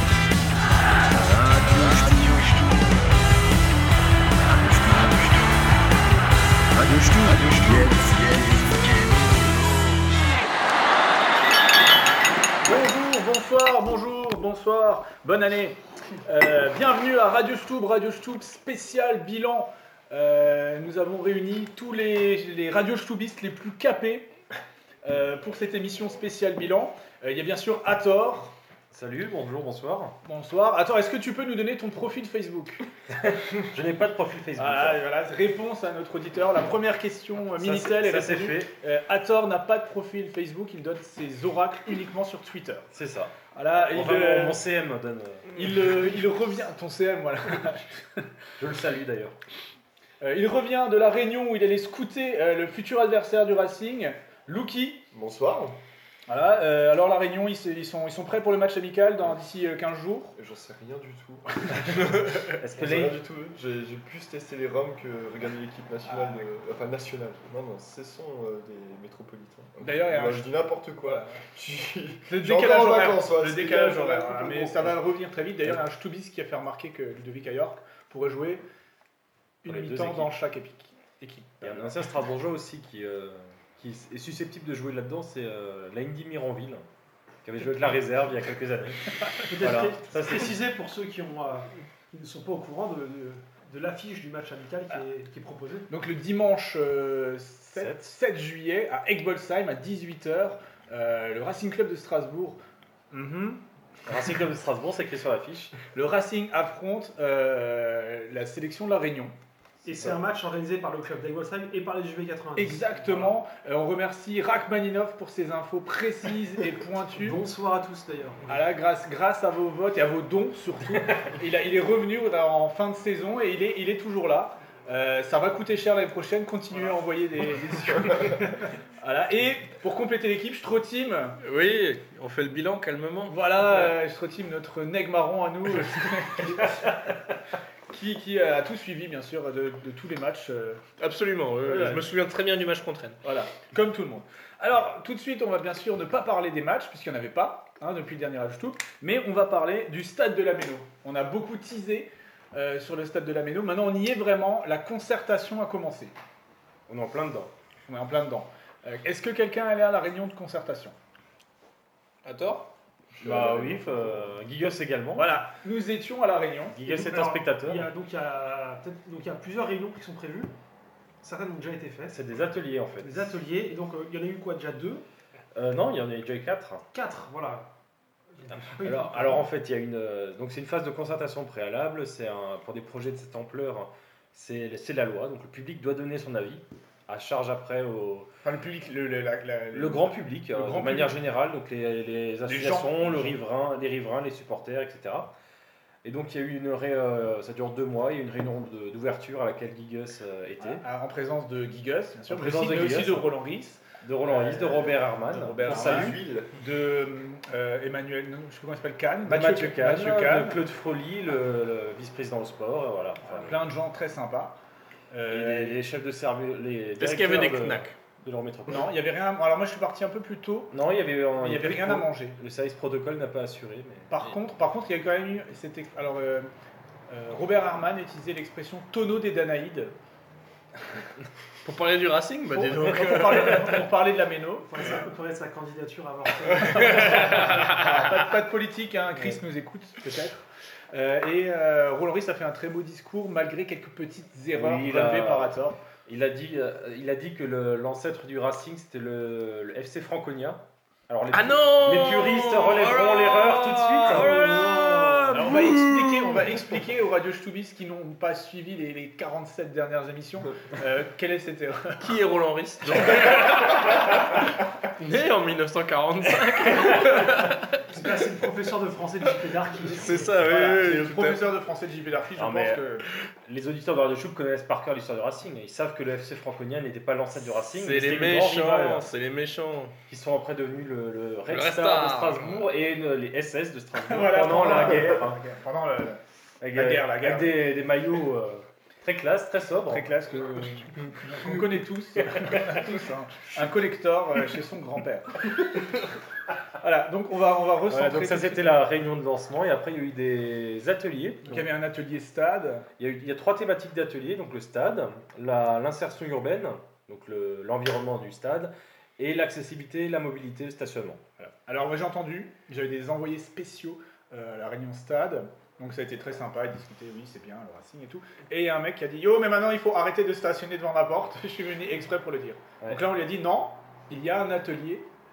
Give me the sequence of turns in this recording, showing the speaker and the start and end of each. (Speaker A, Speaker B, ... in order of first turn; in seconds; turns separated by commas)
Speaker A: 1.1-2.4, Speaker A: 7.0-8.2, Speaker B: 7.2-7.5, Speaker C: 12.6-24.3, Speaker C: 25.0-28.6, Speaker D: 28.9-30.2, Speaker C: 30.2-32.9, Speaker D: 33.2-35.0, Speaker C: 34.6-42.9, Speaker D: 37.6-38.7, Speaker D: 42.9-45.7, Speaker C: 43.5-44.6, Speaker C: 45.5-48.3, Speaker D: 48.6-49.4, Speaker C: 50.2-55.1, Speaker E: 55.1-55.8, Speaker C: 56.3-60.4, Speaker E: 60.4-75.0, Speaker D: 62.5-63.2, Speaker C: 66.1-66.5, Speaker C: 69.8-71.4, Speaker C: 72.3-78.6, Speaker C: 79.6-81.7, Speaker D: 79.7-80.3, Speaker D: 81.6-86.8, Speaker D: 87.4-90.6, Speaker F: 89.5-95.9, Speaker C: 95.9-102.6, Speaker D: 97.8-98.2, Speaker C: 103.1-103.6, Speaker D: 104.1-105.8, Speaker C: 105.8-109.3, Speaker F: 109.8-113.3, Speaker C: 112.6-117.4, Speaker F: 117.2-118.6, Speaker C: 118.5-131.4, Speaker B: 131.4-133.5, Speaker C: 133.3-137.0, Speaker C: 137.9-140.8, Speaker B: 141.0-143.2, Speaker C: 141.6-142.1, Speaker C: 143.2-156.2, Speaker D: 156.9-157.5, Speaker C: 157.8-160.9, Speaker B: 162.2-162.7, Speaker E: 163.1-164.3, Speaker D: 163.2-165.4, Speaker C: 165.2-166.9, Speaker D: 166.7-167.9, Speaker F: 166.9-170.5, Speaker F: 171.2-172.2, Speaker D: 172.1-173.3, Speaker F: 173.0-175.1, Speaker D: 175.6-176.8, Speaker F: 176.9-177.7, Speaker F: 178.3-179.5, Speaker D: 178.8-188.3, Speaker C: 188.4-191.2, Speaker D: 189.7-195.3, Speaker C: 192.5-193.4, Speaker D: 196.0-200.8, Speaker C: 200.6-210.6, Speaker D: 202.3-203.3, Speaker D: 204.0-206.2, Speaker E: 205.6-206.5, Speaker D: 209.2-213.6, Speaker C: 213.3-214.6, Speaker C: 215.1-215.8, Speaker D: 215.3-218.9, Speaker B: 217.0-218.0, Speaker C: 218.7-220.7, Speaker D: 220.7-224.3, Speaker C: 221.4-222.4, Speaker C: 224.1-226.5, Speaker C: 227.1-229.9, Speaker B: 231.6-233.8, Speaker C: 232.5-234.7, Speaker F: 234.6-237.5, Speaker C: 236.7-245.8, Speaker D: 244.5-245.6, Speaker D: 246.1-254.6, Speaker B: 251.3-256.5, Speaker F: 254.1-255.4, Speaker C: 255.3-262.2, Speaker B: 262.0-267.8, Speaker F: 267.9-270.4, Speaker B: 269.9-271.5, Speaker C: 270.4-273.1, Speaker D: 272.4-272.8, Speaker D: 273.5-279.1, Speaker B: 277.7-279.9, Speaker D: 280.1-285.4, Speaker B: 281.5-282.7, Speaker C: 284.1-286.2, Speaker D: 286.6-290.1, Speaker C: 286.7-287.7, Speaker C: 289.9-295.9, Speaker D: 292.4-292.7, Speaker C: 296.8-298.8, Speaker D: 297.9-301.7, Speaker C: 301.4-302.9, Speaker D: 303.0-311.5, Speaker C: 311.6-325.1